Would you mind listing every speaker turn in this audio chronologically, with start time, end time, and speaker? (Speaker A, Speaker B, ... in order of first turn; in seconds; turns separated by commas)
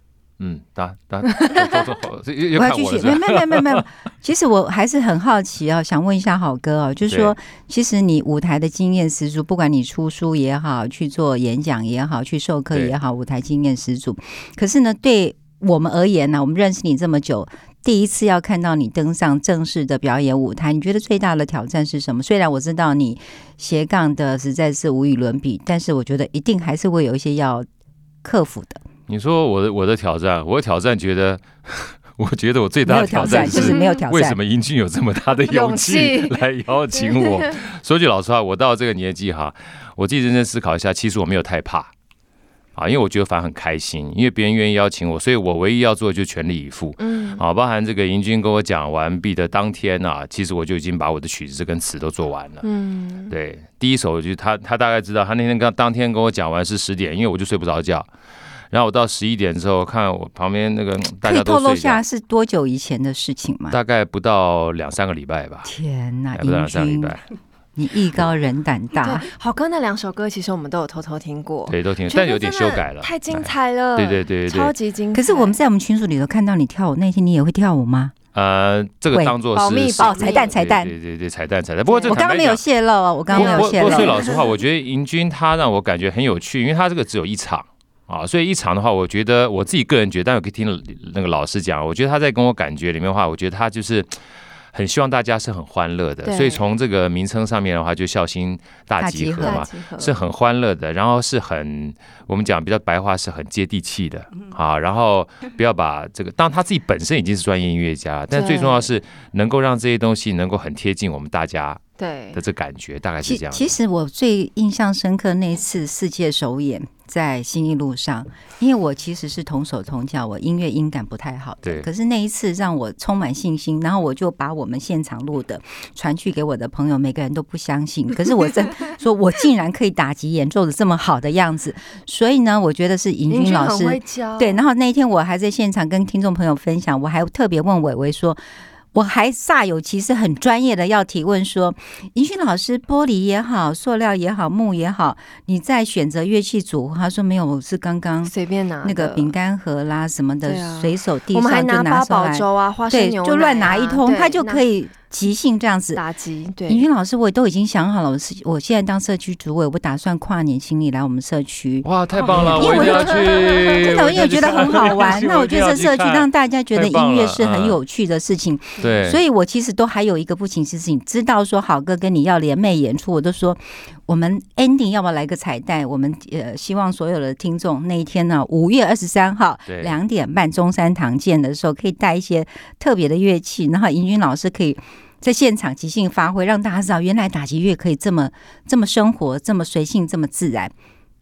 Speaker A: 0.4-3.8, Speaker B: 2.5-27.7, Speaker A: 7.1-7.3, Speaker B: 28.2-28.8, Speaker A: 29.1-41.9, Speaker B: 32.9-34.4, Speaker C: 33.3-34.0, Speaker C: 35.5-36.4, Speaker C: 37.0-37.6, Speaker A: 42.8-52.6, Speaker C: 47.0-47.4, Speaker C: 52.6-53.3, Speaker A: 53.3-58.1, Speaker A: 58.7-62.0, Speaker B: 61.2-63.8, Speaker A: 63.7-65.7, Speaker B: 65.7-67.2, Speaker A: 66.3-67.2, Speaker B: 67.8-69.3, Speaker C: 69.0-75.6, Speaker A: 71.7-74.7, Speaker B: 75.1-78.1, Speaker A: 78.3-82.6, Speaker B: 79.1-79.4, Speaker C: 79.5-80.5, Speaker B: 80.0-80.9, Speaker C: 81.9-82.2, Speaker B: 82.1-84.2, Speaker C: 83.3-84.4, Speaker A: 83.3-94.2, Speaker A: 94.7-111.8, Speaker C: 96.2-96.6, Speaker B: 99.0-99.6, Speaker C: 99.4-100.2, Speaker C: 108.3-108.9, Speaker C: 112.0-112.4, Speaker A: 112.3-113.8, Speaker B: 113.2-138.4, Speaker C: 133.3-134.6, Speaker B: 138.9-156.0, Speaker C: 148.2-149.3, Speaker C: 150.5-154.6, Speaker C: 155.9-156.8, Speaker B: 156.7-190.7, Speaker A: 161.8-167.8, Speaker C: 162.6-163.3, Speaker A: 168.8-169.2, Speaker A: 179.7-180.0